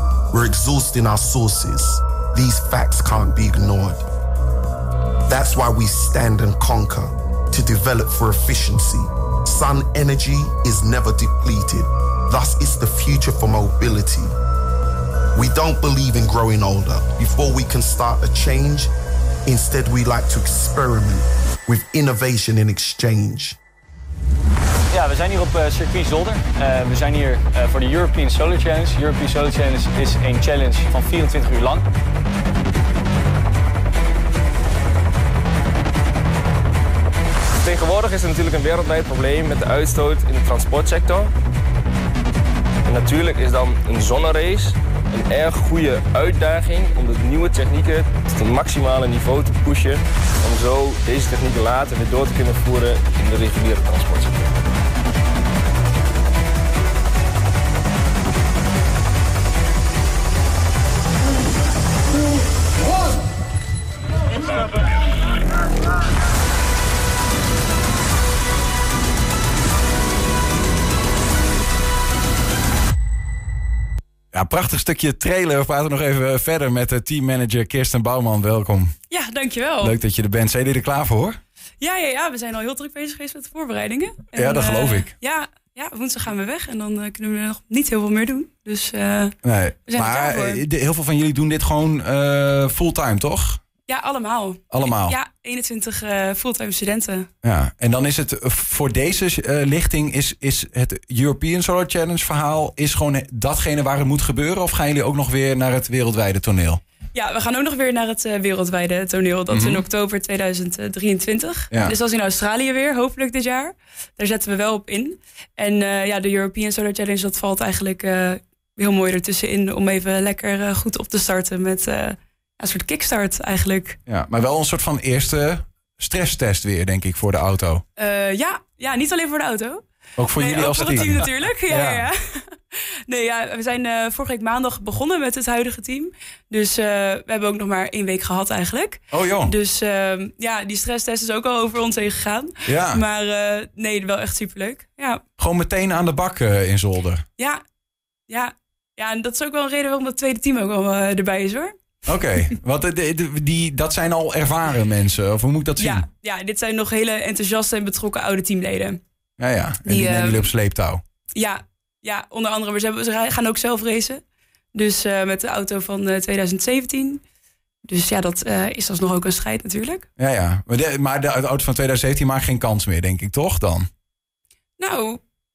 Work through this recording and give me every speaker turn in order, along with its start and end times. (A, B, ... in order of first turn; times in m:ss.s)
0:00.3-0:04.0 A
0:05.3-0:14.3 A
0:15.4-0:18.9 A
0:19.5-0:23.6 A
0:24.9-0:31.9 B
0:37.6-0:41.3 C
0:42.8-0:54.5 C
1:14.3-1:18.9 D
1:19.1-1:20.0 E
1:19.8-1:21.4 D
1:21.8-1:29.4 E
1:24.4-1:25.1 D
1:29.4-1:33.6 D
1:29.9-1:30.6 E
1:33.9-1:37.3 E
1:34.7-1:35.2 D
1:37.4-1:46.8 D
1:47.1-2:04.0 E
1:49.5-1:49.8 D
2:04.1-2:07.8 D
2:08.0-2:09.8 E
2:10.2-2:12.1 D
2:10.3-2:25.2 E
2:19.1-2:19.5 D
2:22.7-2:23.0 D
2:25.4-2:27.2 D
2:28.3-2:31.7 E
2:32.1-2:36.0 D
2:35.8-2:39.0 E
2:39.4-2:41.0 D
2:39.9-2:40.5 E
2:41.4-2:44.2 E
2:44.8-2:47.2 E
2:47.9-2:50.1 E
2:50.2-2:53.9 D
2:54.8-2:55.2 E